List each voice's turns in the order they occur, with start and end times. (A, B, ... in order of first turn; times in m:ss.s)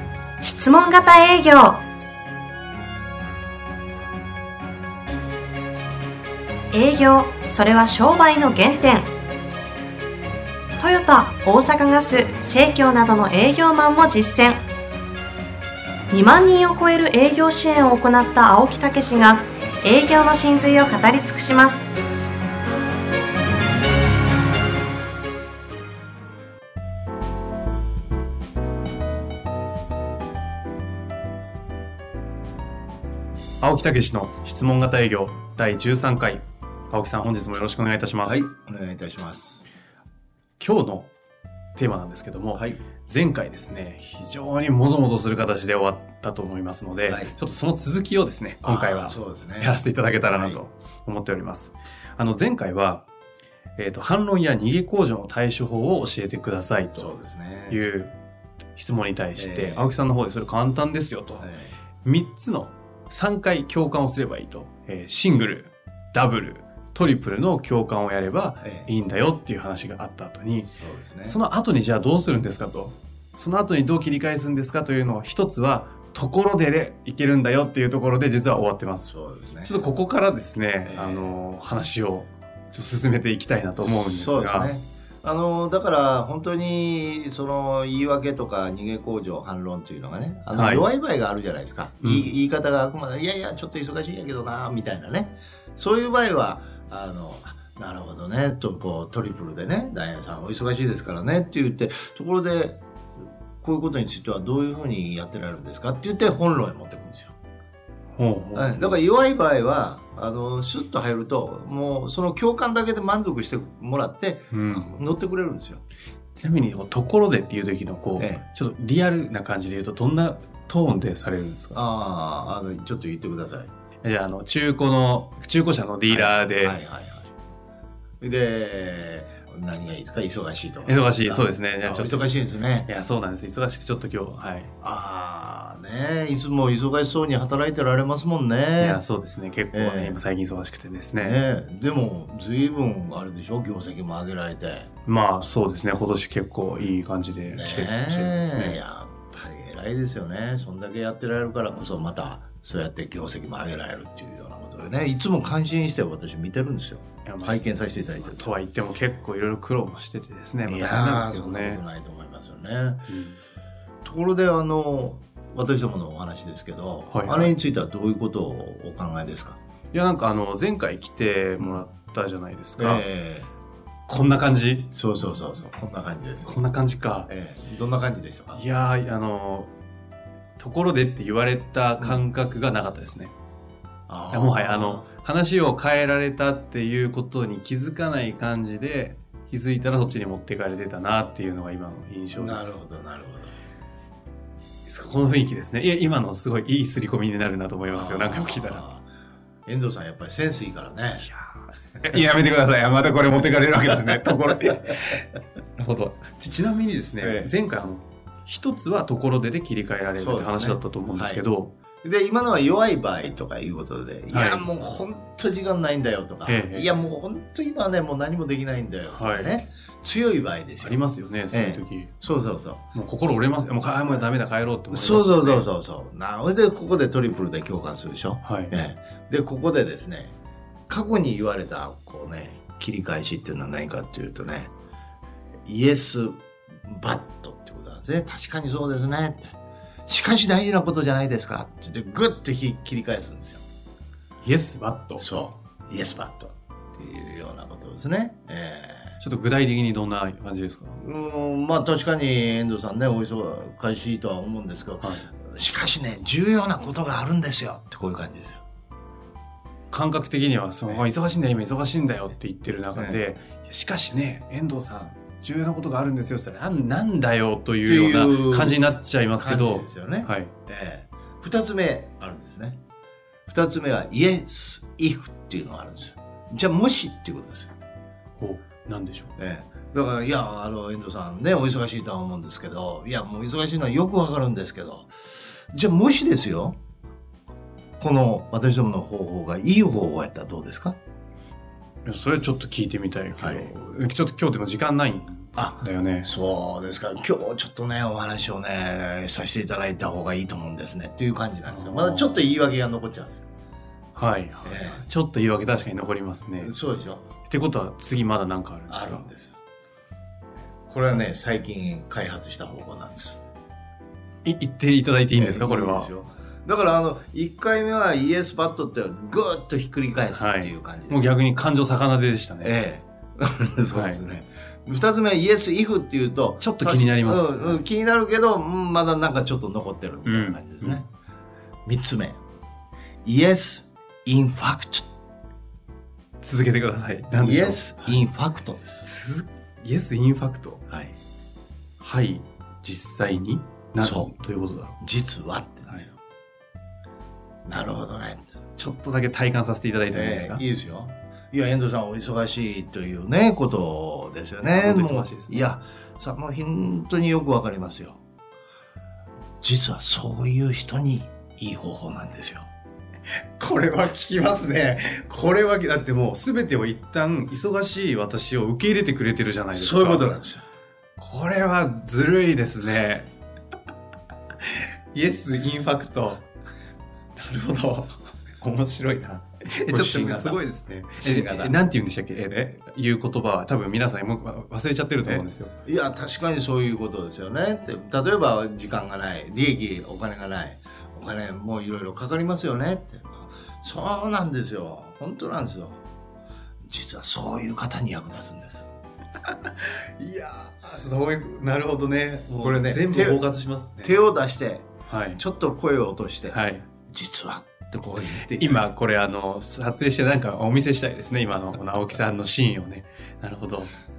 0:00.4-0:01.8 A
0:06.7-0:09.1 A
0:10.8-0:14.6 A
0:16.1-0:21.8 A
0:33.6-0:38.5 B
0:38.2-0:39.6 C
0:40.6-0:41.1 B
0:41.8-0:53.0 B
0:42.5-0:42.8 C
0:47.1-0:47.3 C
0:48.6-0:50.6 C
0:53.8-0:57.1 B
0:56.9-0:57.8 C
0:57.7-0:58.1 B
0:58.7-1:01.5 B
0:59.4-0:59.9 C
1:01.4-1:01.7 C
1:02.0-1:10.7 B
1:08.6-1:08.9 C
1:10.6-1:11.4 C
1:11.2-1:19.1 B
1:19.1-1:19.9 C
1:19.6-1:24.7 B
1:20.8-1:21.4 C
1:23.8-1:42.8 C
1:30.5-1:30.9 B
1:32.0-1:32.3 B
1:43.6-1:47.3 C
1:48.2-1:49.0 B
1:48.5-1:55.8 C
1:54.5-1:55.0 B
1:56.4-2:01.8 B
1:58.2-1:58.4 C
2:01.7-2:03.7 C
2:04.0-2:06.8 B
2:06.1-2:07.3 C
2:08.2-2:12.9 C
2:10.8-2:14.7 B
2:14.8-2:19.0 C
2:18.8-2:21.4 B
2:19.7-2:20.2 C
2:21.2-2:24.9 C
2:25.0-2:28.8 B
2:27.5-2:38.5 C
2:37.2-2:41.8 B
2:40.7-2:43.1 C
2:43.1-2:43.4 B
2:44.0-2:49.6 C
2:47.1-2:47.5 B
2:49.9-2:53.0 B
2:52.8-2:53.5 C
2:54.1-2:54.9 B
2:54.9-2:56.6 C
2:56.4-2:57.3 B
2:57.3-2:58.6 C
2:58.5-2:59.7 B
3:00.6-3:03.3 B
3:04.1-3:05.0 C
3:04.3-3:12.8 B
3:12.4-3:13.6 C
3:14.9-3:18.8 B
3:17.9-3:19.0 C
3:19.6-3:21.3 C
3:21.2-3:31.7 B
3:27.2-3:27.5 C
3:30.1-3:31.4 C
3:32.0-3:42.8 C
3:34.3-3:34.7 B
3:36.5-3:36.9 B
3:39.1-3:39.5 B
3:40.8-3:42.1 B
3:42.9-3:45.6 B
3:44.9-3:50.3 C
3:48.4-3:48.7 B
3:50.9-3:54.7 C
3:55.6-3:59.6 C
4:00.1-4:03.6 C
4:04.4-4:05.2 B
4:05.2-4:09.2 C
4:09.2-4:11.0 B
4:11.0-4:18.6 C
4:15.0-4:15.3 B
4:19.9-4:30.5 B
4:27.8-4:32.8 C
4:33.5-4:37.7 C
4:38.4-4:39.3 B
4:39.4-4:46.8 C
4:48.0-4:51.0 C
4:52.0-4:56.3 B
4:53.4-4:53.7 C
4:55.6-5:03.4 C
5:01.7-5:02.5 B
5:04.1-5:06.7 B
5:04.6-5:05.0 C
5:06.6-5:07.2 C
5:07.4-5:09.3 B
5:08.9-5:09.6 C
5:10.8-5:13.4 C
5:14.4-5:16.1 B
5:15.3-5:21.3 C
5:20.3-5:22.7 B
5:22.6-5:31.1 C
5:23.9-5:24.2 B
5:26.6-5:27.8 B
5:30.2-5:31.0 B
5:31.8-5:32.4 C
5:33.2-5:35.1 C
5:36.4-5:38.2 B
5:37.3-5:39.1 C
5:39.0-5:40.8 B
5:40.9-5:41.2 C
5:42.0-5:45.0 B
5:44.0-5:44.3 C
5:45.0-5:46.2 C
5:47.6-5:48.6 C
5:48.8-5:50.6 B
5:50.1-5:58.2 C
5:54.6-5:55.7 B
5:59.6-6:02.7 C
6:03.6-6:10.3 B
6:09.7-6:10.6 C
6:11.2-6:13.3 B
6:14.8-6:16.4 B
6:17.4-6:25.7 B
6:19.7-6:20.6 C
6:21.1-6:21.8 C
6:25.2-6:36.0 C
6:36.8-6:38.9 C
6:39.8-6:44.2 B
6:42.6-6:43.4 C
6:44.0-6:46.6 C
6:45.1-6:45.4 B
6:46.5-6:46.8 B
6:47.1-6:48.9 C
6:48.4-6:53.9 B